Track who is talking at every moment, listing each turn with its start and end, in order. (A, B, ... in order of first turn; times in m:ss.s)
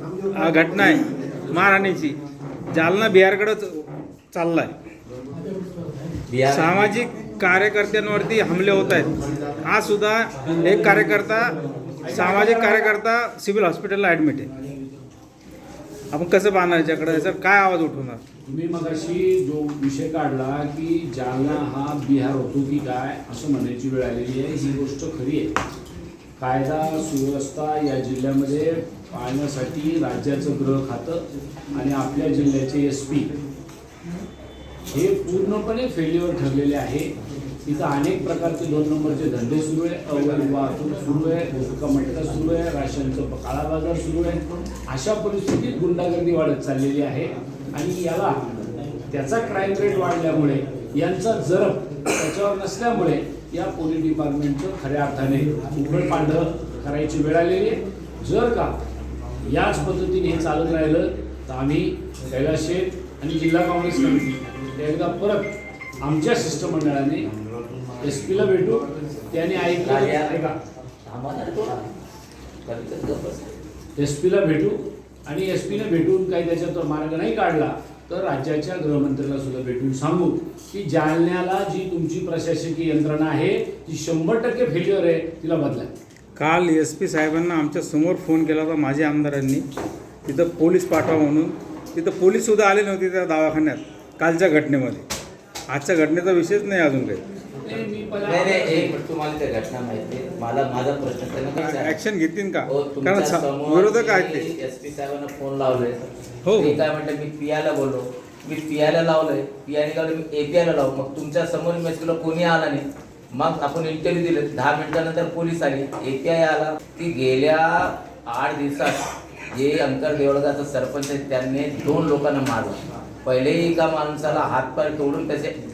0:00.4-0:02.2 A
0:02.7-0:04.7 A
0:06.3-0:07.0 B
0:06.5-0:09.1 A
0:09.6-0:11.5 A
0:12.0-0:13.0 C
0:12.1-0:14.5 A
0:16.1-0:18.2 A
0:18.5-0:25.5 C
0:26.4-0:33.3 C
0:34.9-0:37.1 C
0:37.6-0:58.7 C
0:59.4-1:07.3 C
1:08.0-1:10.6 C
1:09.8-1:10.4 B
1:11.1-1:11.9 B
1:12.7-1:13.5 B
1:14.0-1:25.9 C
1:26.4-1:29.6 A
1:30.2-1:35.0 A
1:35.7-1:37.2 A
1:37.6-1:39.0 C
1:38.2-1:42.0 B
1:41.6-1:44.5 A
1:42.7-1:46.0 B
1:46.4-1:46.8 A
1:46.6-2:05.6 B